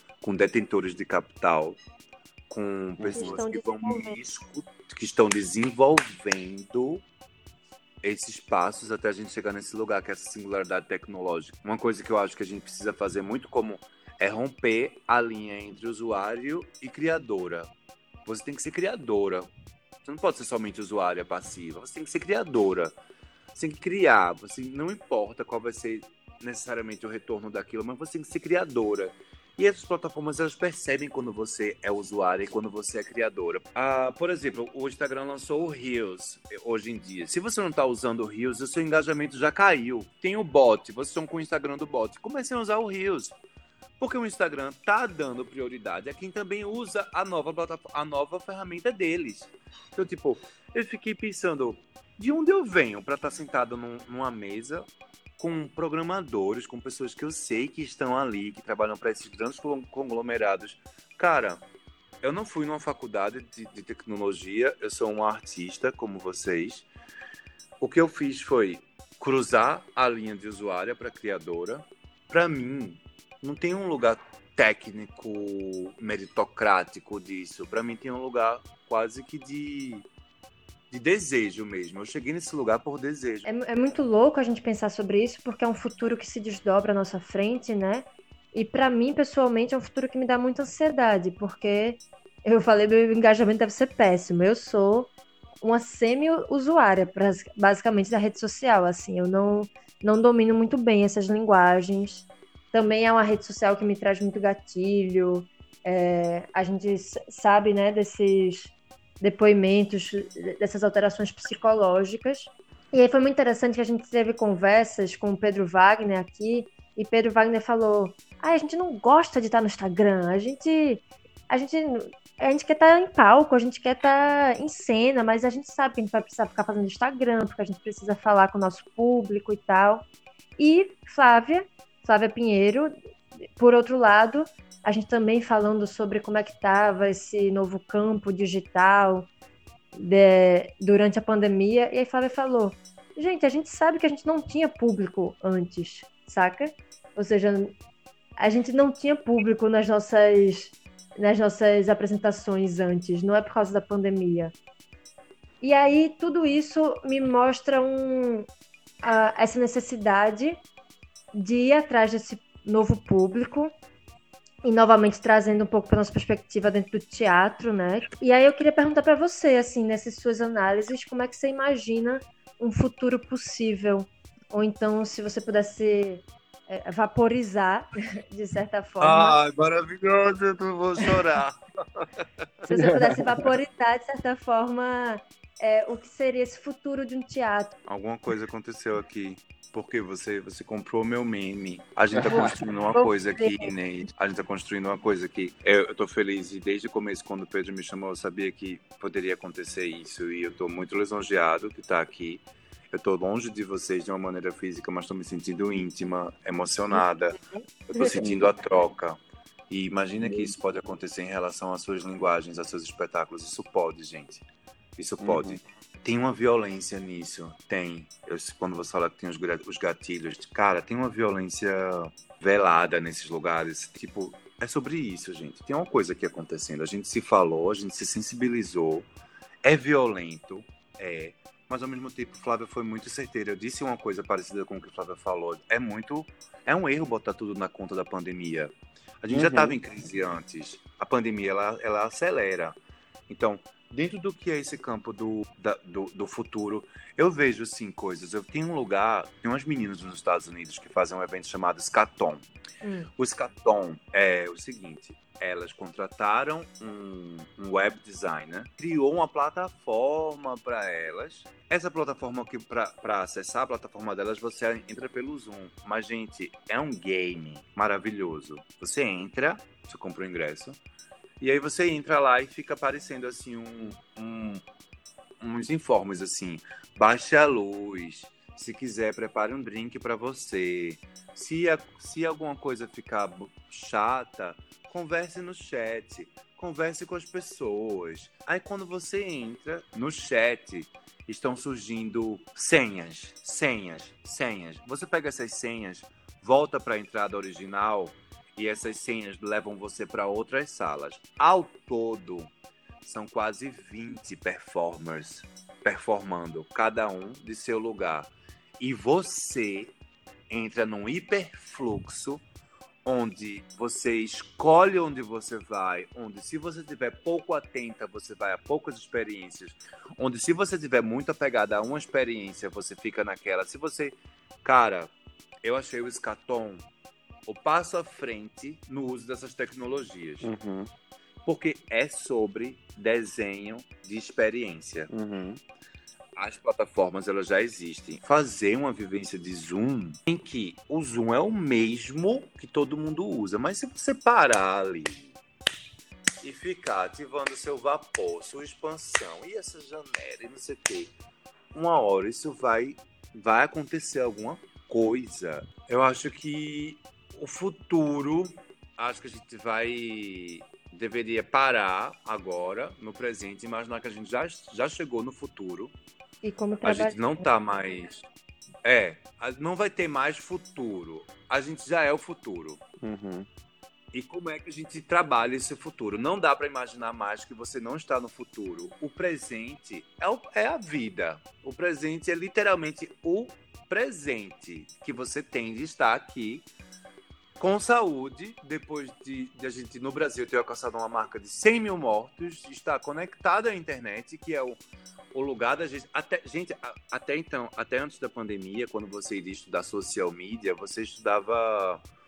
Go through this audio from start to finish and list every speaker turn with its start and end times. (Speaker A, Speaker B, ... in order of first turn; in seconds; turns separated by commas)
Speaker A: 0.2-1.8, Speaker A: 2.5-7.0, Speaker B: 3.0-3.4, Speaker C: 3.1-4.2, Speaker A: 8.0-17.7, Speaker A: 18.2-19.5, Speaker A: 20.1-23.0, Speaker A: 23.6-43.4, Speaker A: 44.0-54.9, Speaker A: 55.4-61.6, Speaker A: 62.2-66.9, Speaker A: 67.8-80.1, Speaker A: 80.9-83.5, Speaker C: 83.5-130.0, Speaker C: 130.6-132.9, Speaker C: 133.6-139.3, Speaker C: 139.9-147.7, Speaker C: 148.4-154.5, Speaker C: 155.6-158.5, Speaker C: 159.0-160.6, Speaker C: 161.3-163.7, Speaker C: 164.6-179.4, Speaker A: 179.0-182.1, Speaker C: 182.7-187.8, Speaker B: 182.7-183.3, Speaker A: 187.9-207.4, Speaker B: 192.2-192.5, Speaker C: 192.3-193.7, Speaker C: 207.5-208.1, Speaker A: 207.9-209.2, Speaker B: 208.2-208.4, Speaker A: 209.7-214.5, Speaker B: 210.2-210.5, Speaker A: 215.0-229.1, Speaker B: 215.2-215.6, Speaker A: 229.6-242.8, Speaker B: 239.3-239.8, Speaker A: 243.3-252.4, Speaker C: 252.8-253.1, Speaker A: 253.2-270.8, Speaker A: 271.4-274.6, Speaker A: 275.4-302.5, Speaker A: 303.0-309.9, Speaker A: 310.5-312.4, Speaker A: 313.1-325.1, Speaker A: 325.6-326.9, Speaker A: 327.5-330.5, Speaker B: 330.4-330.9, Speaker A: 331.4-335.1, Speaker B: 335.1-335.6, Speaker A: 336.4-345.4, Speaker A: 346.4-351.1, Speaker A: 351.7-365.9, Speaker C: 366.4-367.4, Speaker A: 366.8-368.2, Speaker A: 368.8-372.8, Speaker B: 373.0-373.5, Speaker A: 374.1-386.7, Speaker A: 387.6-394.8, Speaker A: 395.3-402.0